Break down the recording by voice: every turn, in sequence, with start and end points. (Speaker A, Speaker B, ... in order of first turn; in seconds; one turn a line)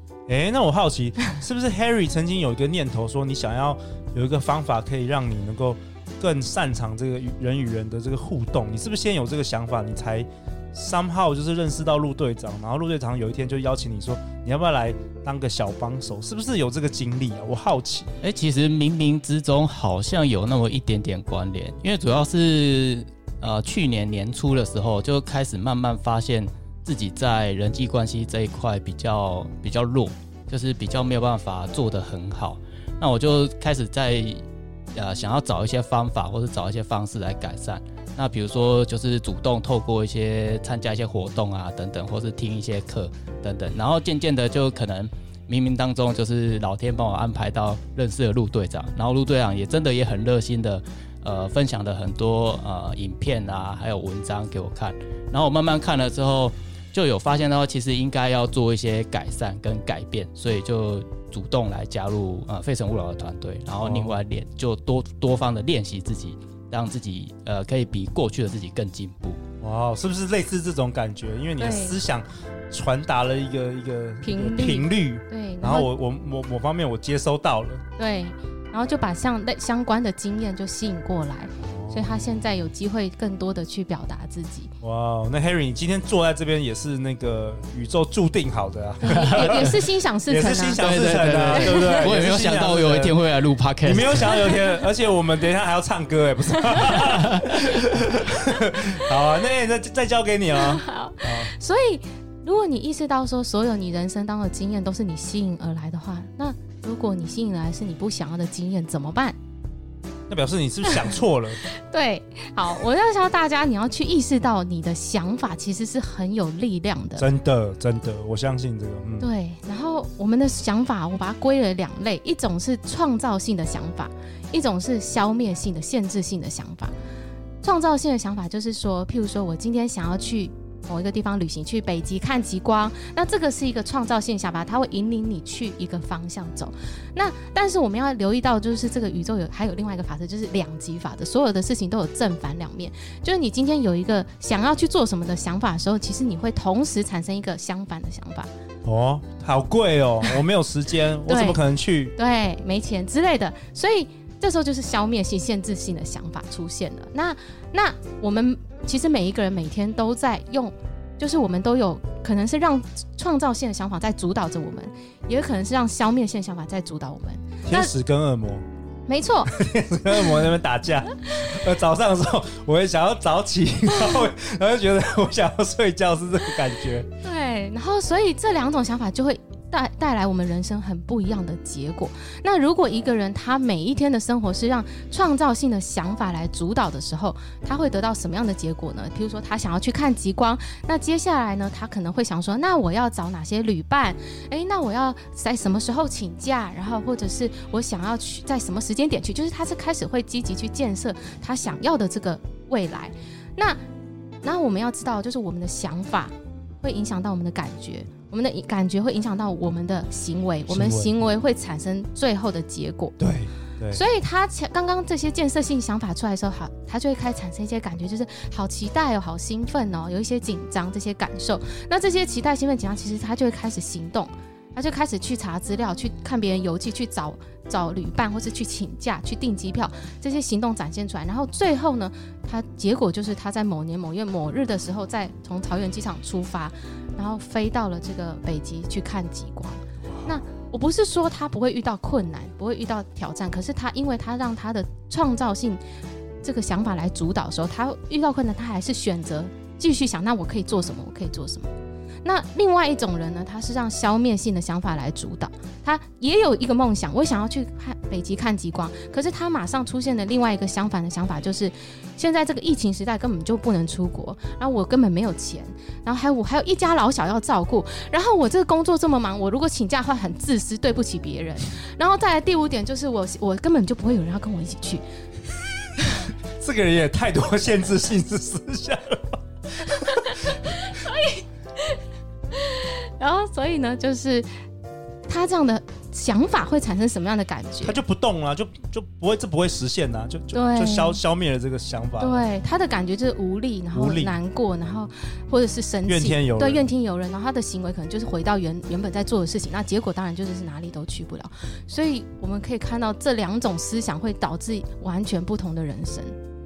Speaker A: 0.3-18.1
Speaker B: 18.2-69.4
Speaker A: 63.8-64.2
Speaker A: 69.6-77.8
Speaker C: 71.6-72.0
Speaker C: 74.2-75.9
Speaker C: 78.0-84.7
Speaker A: 81.6-82.7
Speaker A: 84.8-93.2
Speaker C: 89.0-92.1
Speaker B: 89.1-89.7
Speaker B: 90.8-94.5
Speaker A: 93.8-101.5
Speaker C: 94.3-94.6
Speaker B: 97.0-97.5
Speaker C: 100.6-109.4
Speaker A: 110.3-111.6
Speaker C: 111.6-117.2
Speaker A: 117.2-119.3
Speaker C: 119.2-127.0
Speaker C: 127.6-148.5
Speaker A: 148.8-152.1
Speaker C: 151.3-151.6
Speaker C: 152.2-167.9
Speaker A: 167.7-168.7
Speaker C: 169.1-169.6
Speaker A: 169.5-177.1
Speaker C: 177.2-203.8
Speaker C: 204.4-213.2
Speaker A: 210.7-211.1
Speaker A: 213.2-214.0
Speaker C: 213.9-245.8
Speaker A: 240.1-240.4
Speaker C: 246.4-251.7
Speaker C: 252.2-275.0
Speaker A: 276.6-280.2
Speaker C: 280.1-282.0
Speaker C: 282.5-284.5
Speaker C: 285.3-288.0
Speaker A: 287.8-292.4
Speaker C: 290.5-291.2
Speaker C: 292.2-306.4
Speaker A: 293.9-294.4
Speaker A: 296.1-296.9